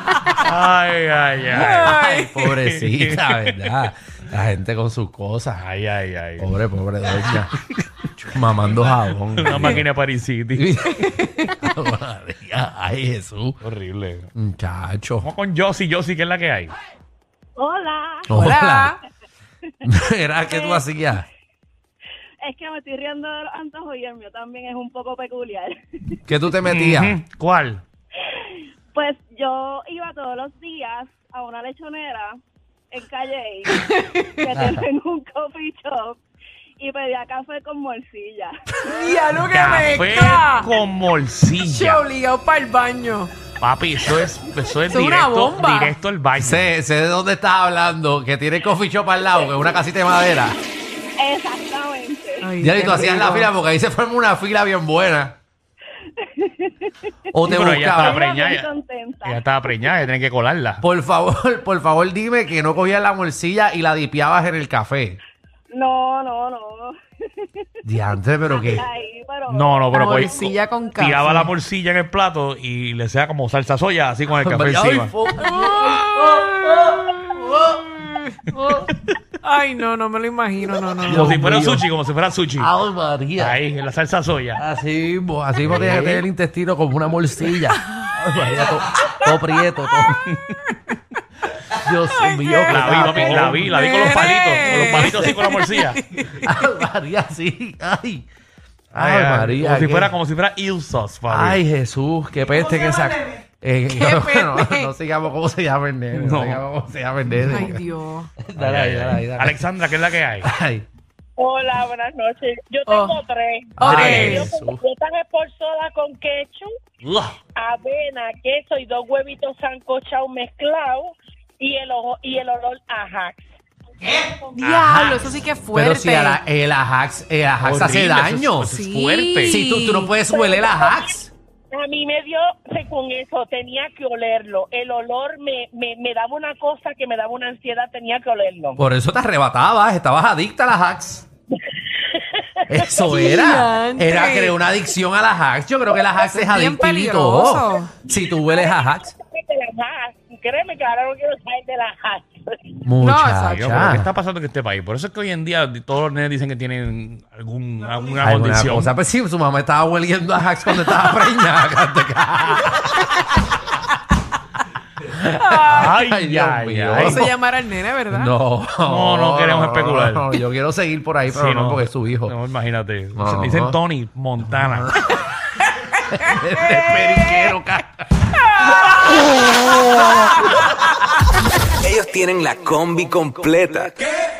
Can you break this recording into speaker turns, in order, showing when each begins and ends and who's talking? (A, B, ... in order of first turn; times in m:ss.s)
0:00.2-0:03.5 A
0:01.5-0:02.5 B
0:01.5-0:05.6 C
0:05.6-0:06.5 A
0:06.4-0:07.5 C
0:08.1-0:09.8 C
0:09.4-0:10.8 A
0:10.6-0:13.6 C
0:13.6-0:14.3 A
0:14.3-0:15.3 C
0:15.2-0:16.7 A
0:17.6-0:18.3 D
0:18.3-0:18.9 C
0:18.3-0:18.9 B
0:19.8-0:21.2 C
0:20.5-0:20.8 D
0:22.4-0:26.2 D
0:26.3-0:27.2 C
0:26.7-0:27.8 A
0:28.9-0:32.4 D
0:32.9-0:33.8 D
0:33.6-0:34.5 B
0:34.3-0:36.2 D
0:36.8-0:38.6 D
0:38.8-0:40.7 B
0:39.5-0:42.0 A
0:41.6-0:43.3 B
0:43.6-0:46.7 A
0:44.9-0:45.9 B
0:46.4-0:50.6 C
0:51.2-0:52.5 D
0:52.4-0:53.5 B
0:52.6-0:55.3 C
0:56.2-0:56.9 D
0:57.3-0:58.3 C
0:57.4-0:58.7 A
0:57.9-0:59.5 D
0:59.2-1:00.8 A
1:00.8-1:05.2 C
1:05.7-1:07.6 D
1:07.8-1:08.8 C
1:08.5-1:10.5 D
1:09.5-1:15.1 A
1:09.9-1:11.5 B
1:14.4-1:17.8 C
1:15.5-1:18.3 B
1:18.5-1:18.8 C
1:19.4-1:21.3 B
1:21.0-1:22.7 A
1:21.1-1:21.8 C
1:22.6-1:23.6 C
1:23.4-1:24.6 A
1:24.6-1:30.2 C
1:25.6-1:26.2 A
1:30.2-1:30.6 A
1:31.7-1:33.8 C
1:32.1-1:36.5 B
1:32.7-1:36.0 A
1:34.6-1:35.3 C
1:36.4-1:38.3 C
1:38.9-1:41.6 A
1:38.9-1:40.1 C
1:41.3-1:47.8 C
1:43.9-1:44.9 B
1:46.1-1:46.6 A
1:47.5-1:48.3 B
1:48.4-1:49.6 C
1:48.6-1:50.5 A
1:50.4-1:50.8 C
1:51.4-1:56.7 E
1:52.9-1:53.2 B
1:53.8-1:54.8 C
1:53.8-1:54.5 B
1:53.9-1:54.3 A
1:57.6-2:03.4 E
2:04.0-2:04.4 E
2:04.5-2:06.4 B
2:04.6-2:04.9 A
2:04.8-2:08.8 C
2:07.6-2:09.6 A
2:08.7-2:10.1 B
2:09.4-2:11.3 C
2:10.3-2:11.1 E
2:11.7-2:18.8 E
2:18.8-2:21.2 C
2:22.7-2:29.1 C
2:23.0-2:24.6 B
2:26.2-2:27.9 B
2:28.5-2:32.8 E
2:32.8-2:34.1 C
2:33.0-2:33.7 B
2:33.5-2:38.9 A
2:38.2-2:43.0 C
2:45.1-2:47.3 C
2:45.2-2:45.9 B
2:45.7-2:47.2 A
2:47.0-2:48.3 B
2:48.1-2:52.4 C
2:48.8-2:50.3 A
2:51.3-2:55.0 A
2:53.2-2:53.8 C
2:54.5-2:55.2 C
2:56.1-2:58.2 C
2:56.2-2:57.5 B
2:58.4-2:59.2 B
3:00.2-3:00.6 B
3:01.8-3:04.1 F